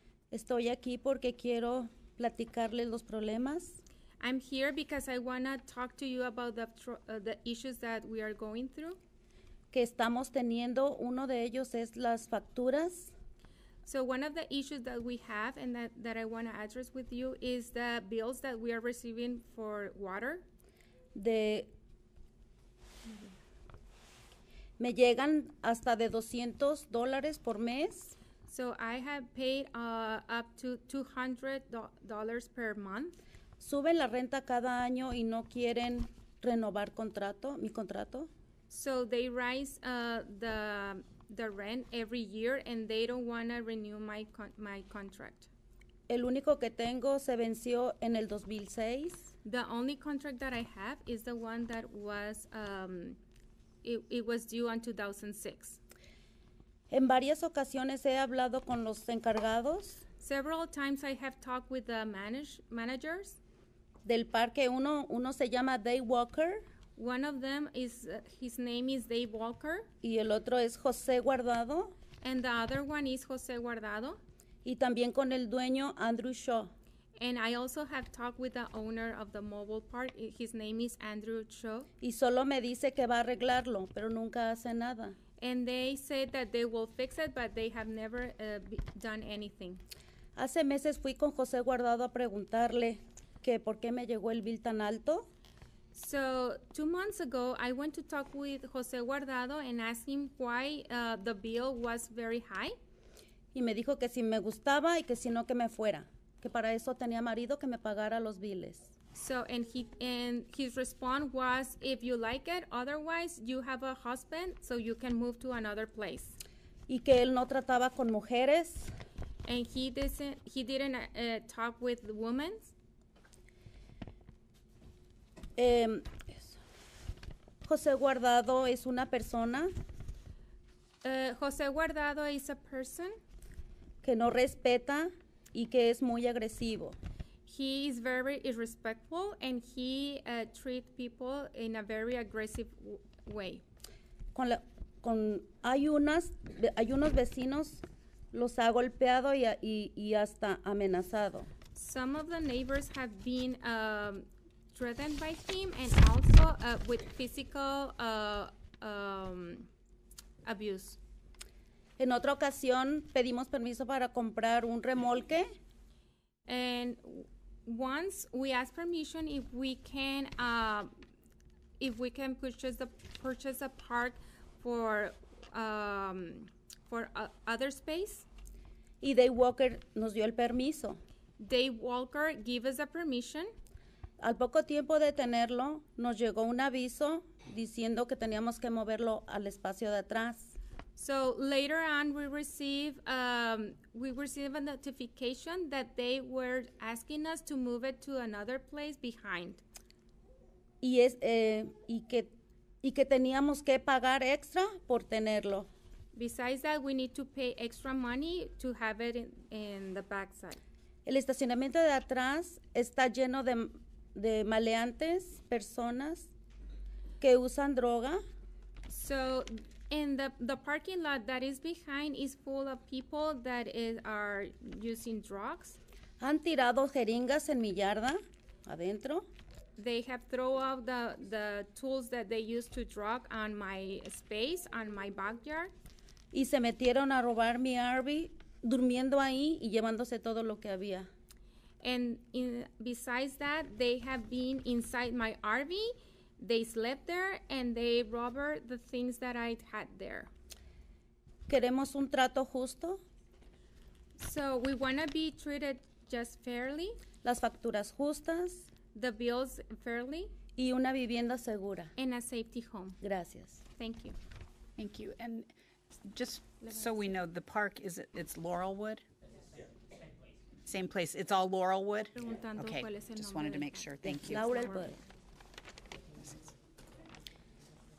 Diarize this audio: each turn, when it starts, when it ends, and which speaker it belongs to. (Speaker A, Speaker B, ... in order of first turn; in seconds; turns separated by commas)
Speaker A: 0.3-3.8, Speaker B: 4.2-9.0, Speaker A: 9.7-13.1, Speaker B: 13.8-20.4, Speaker A: 21.1-21.7, Speaker A: 24.8-28.1, Speaker B: 28.5-33.1, Speaker A: 33.6-38.3, Speaker B: 38.7-45.5, Speaker A: 46.1-49.3, Speaker B: 49.4-53.2, Speaker B: 53.8-55.8, Speaker A: 56.9-60.0, Speaker B: 60.2-63.4, Speaker A: 64.0-66.6, Speaker B: 67.0-69.9, Speaker A: 70.0-71.9, Speaker B: 72.2-74.2, Speaker A: 74.6-76.7, Speaker B: 77.2-81.9, Speaker A: 82.0-85.2, Speaker B: 85.4-89.8, Speaker A: 90.3-95.2, Speaker B: 95.9-102.7, Speaker A: 103.5-108.9, Speaker B: 109.1-116.4, Speaker A: 116.9-118.9, Speaker B: 119.4-122.7, Speaker A: 125.6-126.6, Speaker A: 127.6-129.7, Speaker B: 131.0-133.1, Speaker A: 134.0-137.0, Speaker B: 137.4-143.6, Speaker A: 144.3-151.5, Speaker B: 151.7-159.7, Speaker B: 160.4-161.0, Speaker A: 162.0-165.5, Speaker B: 166.5-170.9, Speaker B: 171.8-178.2, Speaker A: 179.0-181.0, Speaker B: 181.4-183.5, Speaker A: 184.2-190.5, Speaker B: 190.9-199.6, Speaker A: 200.8-202.3, Speaker A: 202.8-205.7, Speaker B: 206.1-210.6, Speaker A: 211.1-216.3, Speaker A: 217.2-218.2, Speaker B: 218.9-225.8, Speaker A: 226.2-229.2, Speaker B: 229.8-235.7, Speaker A: 236.3-241.1, Speaker B: 241.8-250.3, Speaker A: 251.5-253.0, Speaker B: 254.2-257.0, Speaker A: 257.2-258.7, Speaker B: 258.9-260.3, Speaker A: 260.6-261.9, Speaker B: 262.0-263.0, Speaker A: 263.0-263.6, Speaker B: 263.7-264.2, Speaker C: 264.8-265.5, Speaker C: 266.0-269.0, Speaker C: 270.6-274.4, Speaker B: 272.1-274.9, Speaker A: 274.0-275.0